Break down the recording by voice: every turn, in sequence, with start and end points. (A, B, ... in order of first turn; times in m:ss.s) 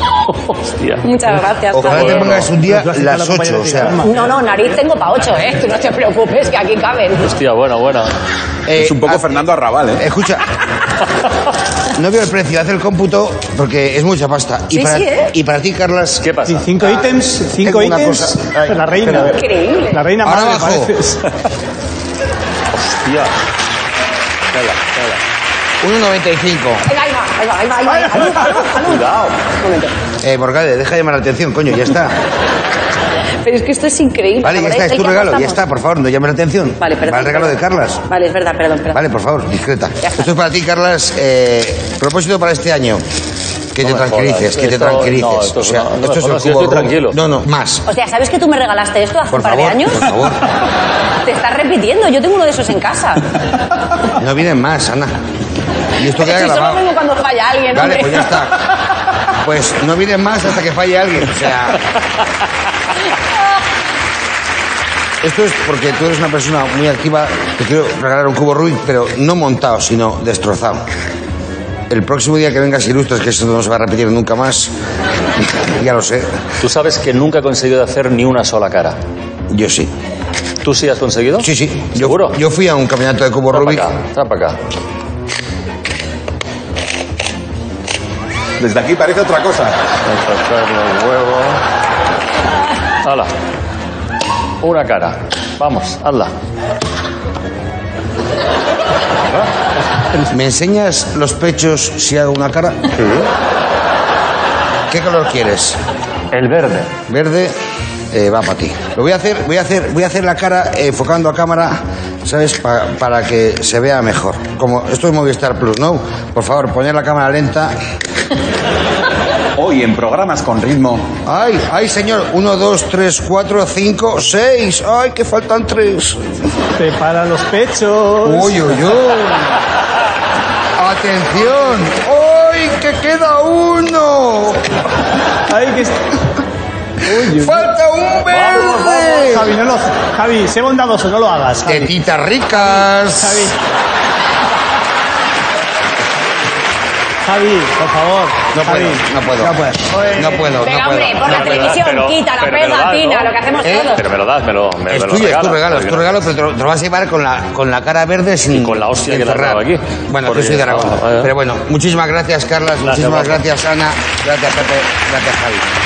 0:00.4-0:01.1 A
0:01.0-0:02.2 B
0:01.7-0:04.0 C
0:01.8-0:02.5 A
0:02.5-0:04.2 D
0:04.0-0:07.3 B
0:07.2-0:08.1 A
0:08.7-0:09.4 C
0:08.8-0:10.0 E
0:10.0-0:10.4 C
0:11.9-0:16.2 C
0:14.7-0:15.3 B
0:16.2-0:17.0 A
0:16.5-0:19.4 D
0:17.6-0:19.4 C
0:19.2-0:20.0 B
0:19.9-0:21.2 D
0:20.2-0:20.9 C
0:22.7-0:23.3 A
0:24.5-0:25.2 A
0:25.8-0:26.8 C
0:26.8-0:29.9 B
0:28.8-0:29.2 A
0:30.2-0:32.2 C
0:33.4-0:35.6 B
0:34.4-0:38.0 C
0:36.8-0:39.0 B
0:38.9-0:43.0 C
0:40.0-0:40.3 B
0:43.7-0:47.8 C
0:43.8-0:47.2 A
0:47.8-0:50.0 B
0:49.3-0:50.4 C
0:51.2-0:53.2 B
0:54.1-0:55.1 C
0:56.0-0:56.8 C
0:56.1-0:58.3 B
0:57.7-0:58.6 C
0:59.3-1:01.8 C
1:05.2-1:10.8 C
1:11.9-1:14.7 C
1:15.6-1:16.3 C
1:16.6-1:19.0 A
1:19.5-1:19.9 C
1:20.6-1:22.4 A
1:21.4-1:23.9 C
1:23.5-1:24.6 A
1:28.6-1:29.8 E
1:30.0-1:31.6 A
1:33.0-1:33.3 A
1:34.6-1:36.3 A
1:40.3-1:42.9 C
1:43.0-1:43.3 A
1:44.9-1:45.8 C
1:46.3-1:46.9 A
1:47.1-1:47.5 C
1:48.1-1:57.7 C
1:59.6-2:01.1 E
2:01.2-2:06.2 C
2:06.8-2:08.6 D
2:08.2-2:09.6 C
2:10.8-2:14.6 C
2:15.5-2:16.0 D
2:17.0-2:17.7 D
2:17.0-2:19.5 C
2:18.3-2:18.7 A
2:18.8-2:21.9 D
2:21.6-2:23.5 C
2:22.6-2:23.5 D
2:27.2-2:30.6 D
2:28.5-2:31.6 C
2:30.6-2:34.0 B
2:31.2-2:33.4 A
2:33.6-2:33.9 C
2:33.9-2:36.2 A
2:34.9-2:45.6 C
2:38.5-2:41.3 A
2:42.8-2:43.4 A